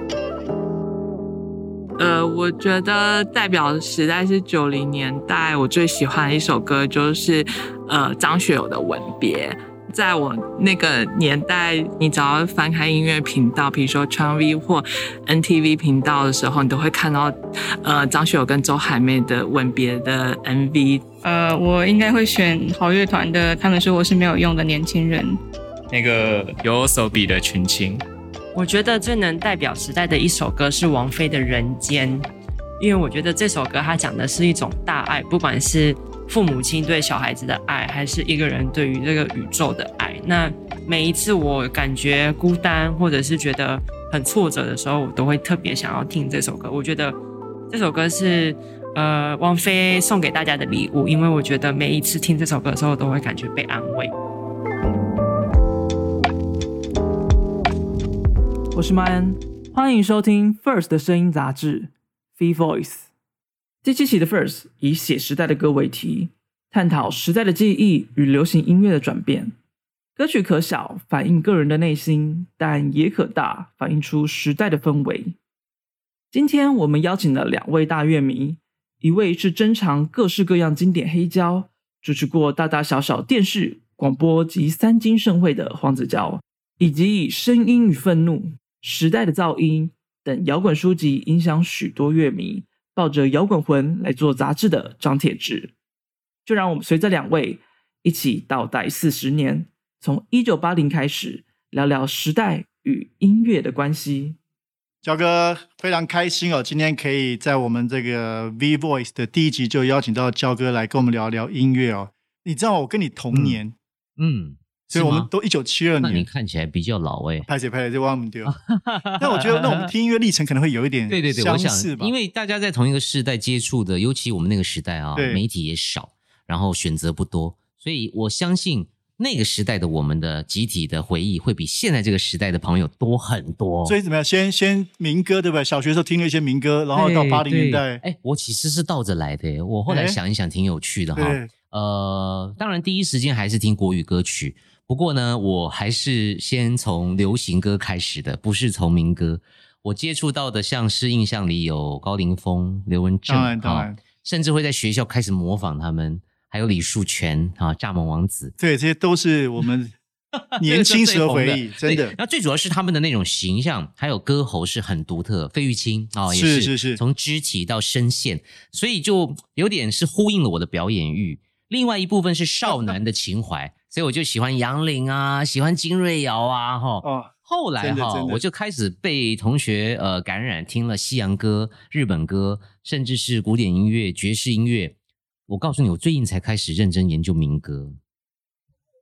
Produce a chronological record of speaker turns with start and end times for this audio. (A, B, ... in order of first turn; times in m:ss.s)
0:02.0-0:21.1 A
0:21.2-0:25.4 B
0:25.9-0:28.0 C
0:28.5-0:32.3 D
0:32.8-0:47.2 D
0:47.7-0:54.1 D
0:58.7-1:03.1 E
1:03.8-1:09.5 E
1:10.2-1:15.4 E
1:16.3-1:35.7 E
1:36.4-1:44.4 E
1:45.0-1:53.8 F
1:53.3-1:53.6 G
1:54.2-1:55.3 G
1:54.9-1:56.3 F
1:56.0-1:57.5 G
1:57.5-1:58.5 F
1:58.5-1:59.7 G
1:59.2-2:02.1 F
2:01.1-2:14.0 G
2:05.2-2:05.4 F
2:13.8-2:18.0 F
2:16.9-2:38.5 G
2:19.9-2:20.2 F
2:21.2-2:21.5 F
2:33.3-2:34.0 F
2:38.6-2:39.9 F
2:40.6-3:05.0 G
2:40.6-2:42.2 F
2:46.3-2:47.0 F
2:57.0-2:58.4 F
3:05.5-3:08.0 G